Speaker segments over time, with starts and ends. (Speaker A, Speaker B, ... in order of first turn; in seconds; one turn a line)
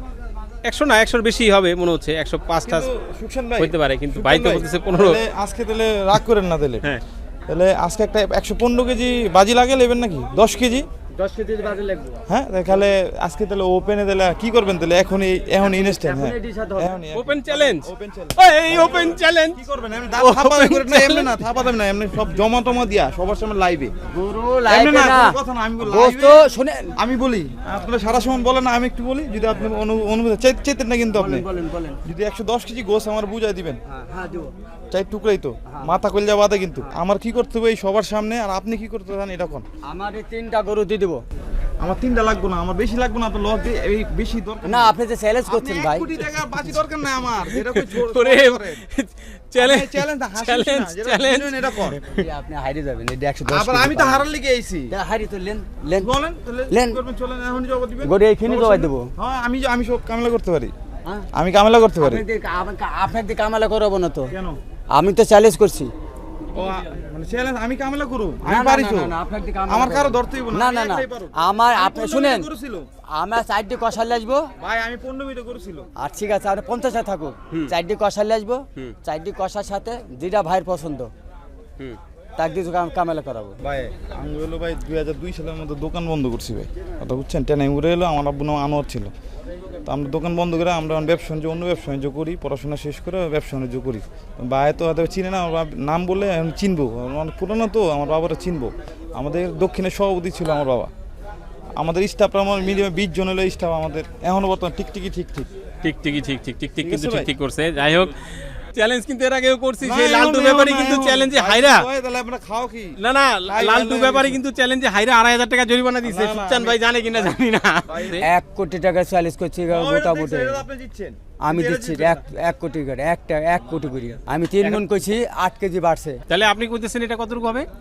Speaker A: 0.6-2.9
Speaker B: 2.6-6.9
Speaker A: 3.6-5.2
Speaker B: 7.5-10.8
Speaker C: 11.2-12.2
Speaker B: 12.3-23.9
Speaker C: 15.6-17.0
Speaker A: 17.1-19.6
Speaker A: 20.2-21.4
Speaker C: 24.1-26.9
Speaker B: 24.7-26.4
Speaker B: 27.0-31.4
Speaker C: 31.1-32.0
Speaker B: 32.0-33.8
Speaker C: 33.9-34.5
Speaker B: 34.9-39.6
Speaker C: 35.7-35.9
Speaker C: 39.9-41.2
Speaker B: 41.8-48.8
Speaker C: 44.6-46.1
Speaker A: 47.5-52.2
Speaker B: 49.6-52.0
Speaker C: 52.1-54.2
Speaker B: 53.5-54.9
Speaker C: 54.9-56.1
Speaker B: 56.0-60.7
Speaker C: 56.7-57.0
Speaker C: 58.0-59.1
Speaker B: 61.3-62.2
Speaker C: 62.0-64.3
Speaker B: 64.3-64.6
Speaker C: 64.9-65.9
Speaker B: 66.5-69.1
Speaker C: 68.5-72.5
Speaker B: 69.7-72.9
Speaker C: 73.1-74.5
Speaker B: 74.6-75.9
Speaker C: 76.0-81.1
Speaker C: 82.4-83.5
Speaker B: 83.6-89.1
Speaker B: 89.8-100.9
Speaker B: 101.8-105.5
Speaker A: 105.8-111.8
Speaker B: 106.8-107.3
Speaker B: 109.8-114.4
Speaker A: 113.0-118.2
Speaker B: 116.0-118.2
Speaker C: 118.2-120.6
Speaker B: 119.7-122.2
Speaker C: 121.4-126.2
Speaker A: 126.3-127.7